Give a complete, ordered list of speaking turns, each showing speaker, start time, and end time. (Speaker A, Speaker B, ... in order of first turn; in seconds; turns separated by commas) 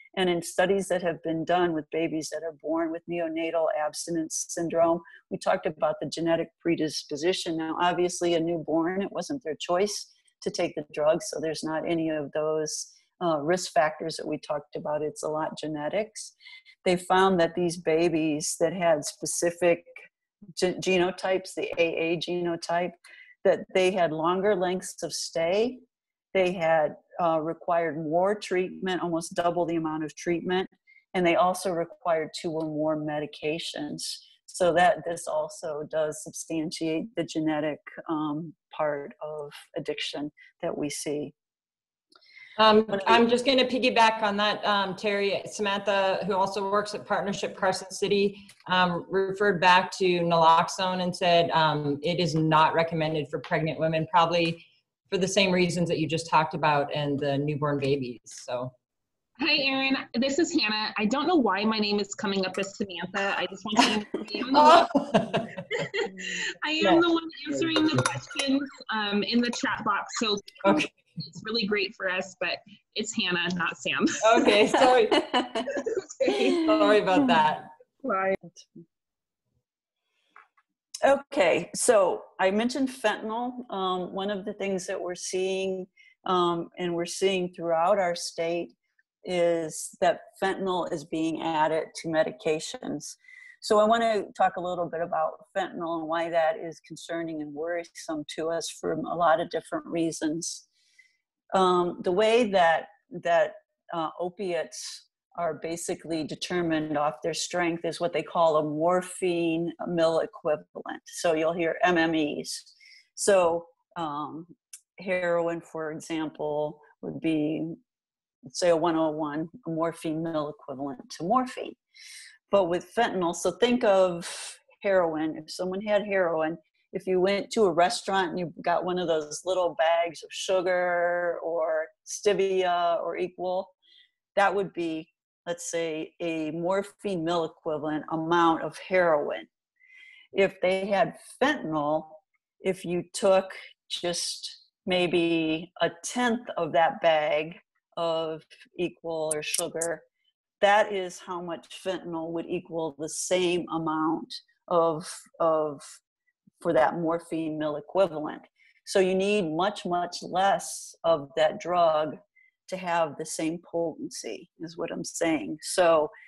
Speaker A: 0.1-16.3, Speaker A: 16.8-19.9, Speaker A: 20.6-25.8, Speaker A: 26.3-41.3, Speaker B: 42.6-58.7, Speaker C: 59.4-65.0, Speaker B: 64.5-65.6, Speaker C: 65.7-74.7, Speaker B: 74.2-75.4, Speaker A: 75.1-75.6, Speaker C: 75.6-77.3, Speaker B: 76.4-77.7, Speaker C: 78.0-78.4, Speaker A: 81.0-100.6, Speaker A: 101.5-117.8, Speaker A: 118.5-121.8, Speaker A: 122.5-133.7, Speaker A: 134.3-139.5, Speaker A: 140.3-150.0, Speaker A: 150.6-155.9, Speaker A: 156.6-162.2, Speaker A: 162.7-166.1